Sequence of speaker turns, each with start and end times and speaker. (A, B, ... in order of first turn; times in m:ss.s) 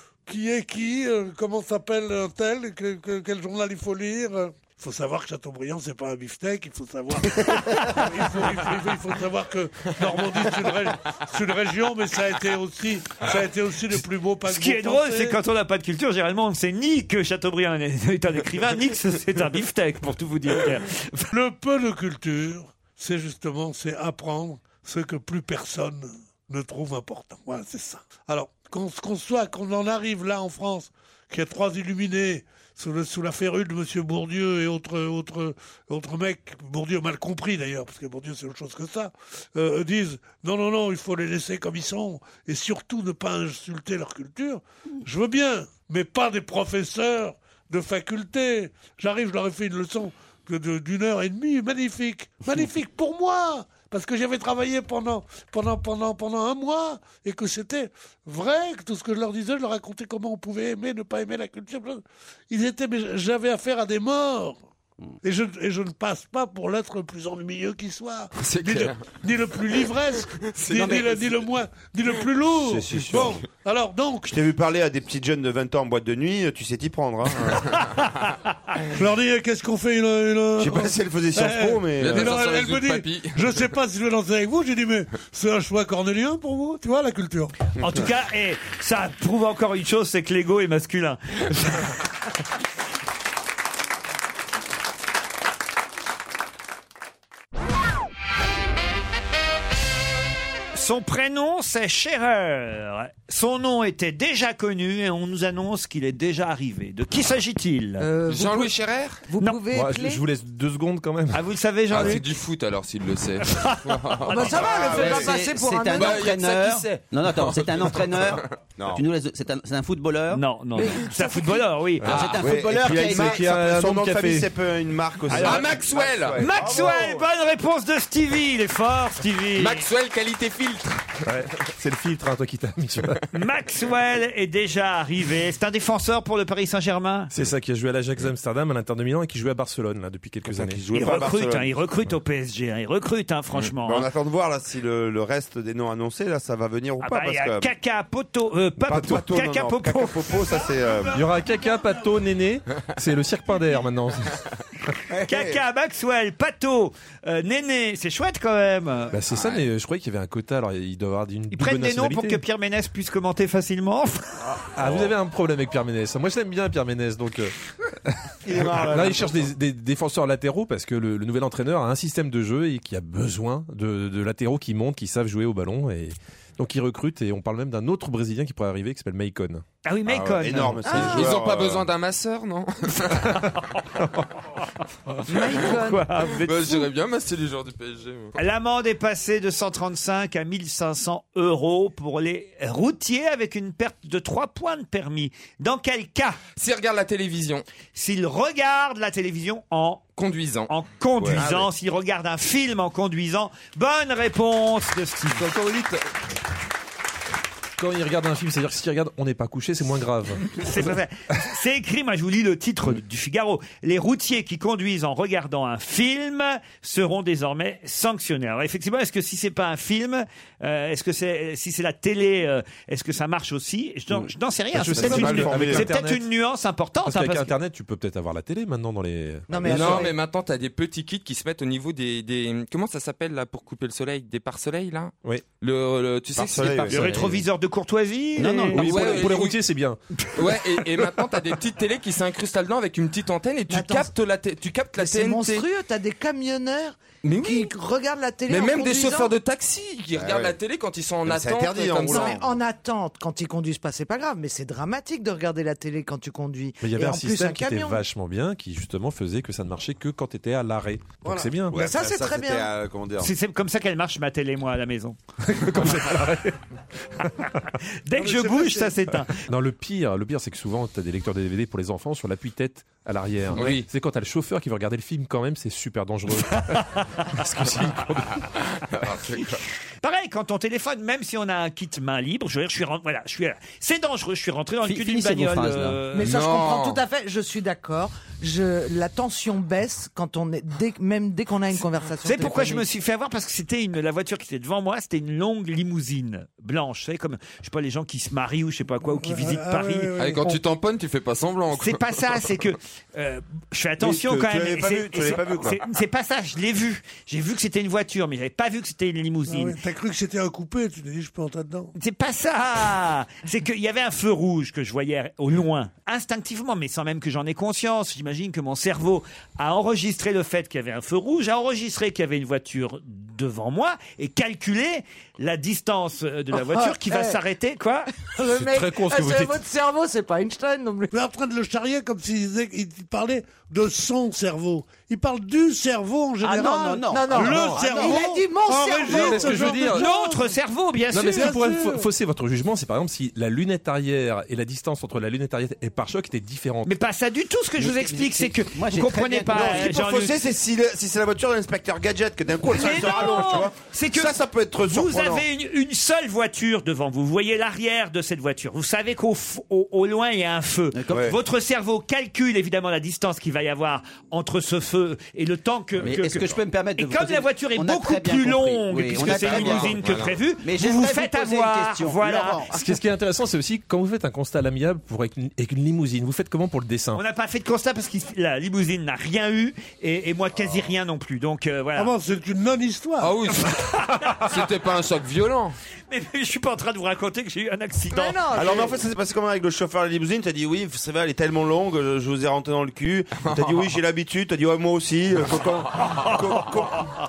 0:00.3-0:15.4 A
0:14.5-0:21.3 B
0:21.3-1:04.6 A
1:05.2-1:14.3 A
1:08.4-1:09.0 C
1:10.4-1:11.4 C
1:12.6-1:13.4 D
1:14.3-1:17.6 D
1:18.9-1:27.6 A
1:20.6-1:22.4 D
1:22.0-1:23.5 C
1:27.8-1:31.9 B
1:40.7-1:48.1 B
1:48.0-1:48.7 E
1:48.3-1:49.3 C
1:49.3-1:50.2 E
1:49.7-1:51.4 F
1:51.3-1:52.3 B
1:51.9-1:55.4 C
1:54.3-1:56.6 E
1:54.9-2:00.4 G
1:56.0-1:56.8 C
1:57.3-1:58.5 C
1:58.8-1:59.0 D
2:00.3-2:02.2 B
2:00.8-2:01.6 E
2:02.0-2:03.5 G
2:02.1-2:02.4 C
2:02.2-2:07.3 D
2:02.9-2:04.5 F
2:05.3-2:06.5 C
2:05.3-2:05.7 B
2:06.4-2:09.9 B
2:09.6-2:11.2 C
2:11.3-2:13.2 F
2:13.3-2:17.3 B
2:17.3-2:20.8 F
2:20.5-2:21.7 D
2:20.9-2:24.1 B
2:23.7-2:27.7 D
2:27.0-2:30.8 B
2:28.8-2:31.2 D
2:31.1-2:34.4 F
2:35.1-2:35.6 D
2:35.3-2:39.1 B
2:39.1-2:42.4 F
2:41.5-2:44.4 B
2:44.8-2:47.6 F
2:48.1-2:59.6 F
2:48.4-2:49.5 D
2:59.8-3:00.8 B
3:00.1-3:01.9 D
3:00.8-3:01.3 E
3:00.9-3:03.3 C
3:05.3-3:06.1 E
3:05.5-3:05.8 C
3:05.6-3:06.8 B
3:06.4-3:08.4 C
3:08.4-3:16.4 B
3:16.6-3:17.6 C
3:18.0-3:20.1 B
3:20.2-3:20.7 C
3:20.7-3:25.5 B
3:21.2-3:21.7 C
3:25.4-3:26.0 C
3:27.8-3:30.7 F
3:30.6-3:47.5 B
3:44.7-3:46.3 F
3:44.9-3:45.9 D
3:47.0-3:50.0 F
3:49.5-3:50.2 E
3:49.5-3:57.0 C
3:56.3-3:57.1 D
3:56.9-3:59.2 B
3:56.9-3:57.4 G
3:58.4-3:59.2 G
3:58.7-4:00.0 F
3:58.8-3:59.6 C
4:00.4-4:05.7 C
4:03.7-4:04.1 E
4:05.0-4:09.3 E
4:07.2-4:07.7 C
4:08.5-4:12.4 C
4:10.2-4:10.6 D
4:11.2-4:12.4 D
4:12.1-4:18.0 E
4:16.8-4:21.8 F
4:21.2-4:21.5 A
4:21.7-4:22.7 E
4:21.7-4:23.3 D
4:23.2-4:26.1 B
4:25.5-4:26.6 F
4:27.2-4:27.5 F
4:28.0-4:29.4 B
4:28.2-4:29.1 A
4:29.5-4:38.4 F
4:33.5-4:33.9 C
4:36.7-4:37.3 B
4:38.9-4:39.6 C
4:40.0-4:46.4 B
4:44.8-4:46.0 G
4:46.1-4:52.8 E
4:46.2-4:47.0 C
4:52.2-5:00.6 B
4:59.1-5:00.6 A
5:00.2-5:02.4 C
5:01.7-5:09.8 B
5:04.0-5:05.8 D
5:09.5-5:11.9 A
5:12.0-5:28.1 B
5:26.5-5:27.4 E
5:28.4-5:31.1 E
5:28.5-5:29.6 F
5:31.1-5:40.6 A
5:36.4-5:39.8 E
5:36.5-5:38.2 G
5:37.3-5:37.8 F
5:39.1-5:40.1 F
5:39.9-5:41.5 B
5:41.1-5:47.0 F
5:41.1-5:42.1 A
5:46.8-5:50.4 B
5:47.8-5:50.0 G
5:49.5-5:55.5 D
5:52.7-6:12.8 B
6:00.9-6:01.3 G
6:01.1-6:01.4 D
6:06.0-6:10.0 G
6:09.2-6:10.4 C
6:10.6-6:12.8 G
6:12.7-6:17.2 F
6:17.1-6:22.1 B
6:22.0-6:23.4 A
6:23.2-6:23.8 C
6:23.6-6:24.4 B
6:24.4-6:25.8 C
6:26.1-6:28.4 B
6:28.1-6:29.0 E
6:28.5-6:37.1 D
6:33.5-6:33.8 C
6:36.0-6:36.8 B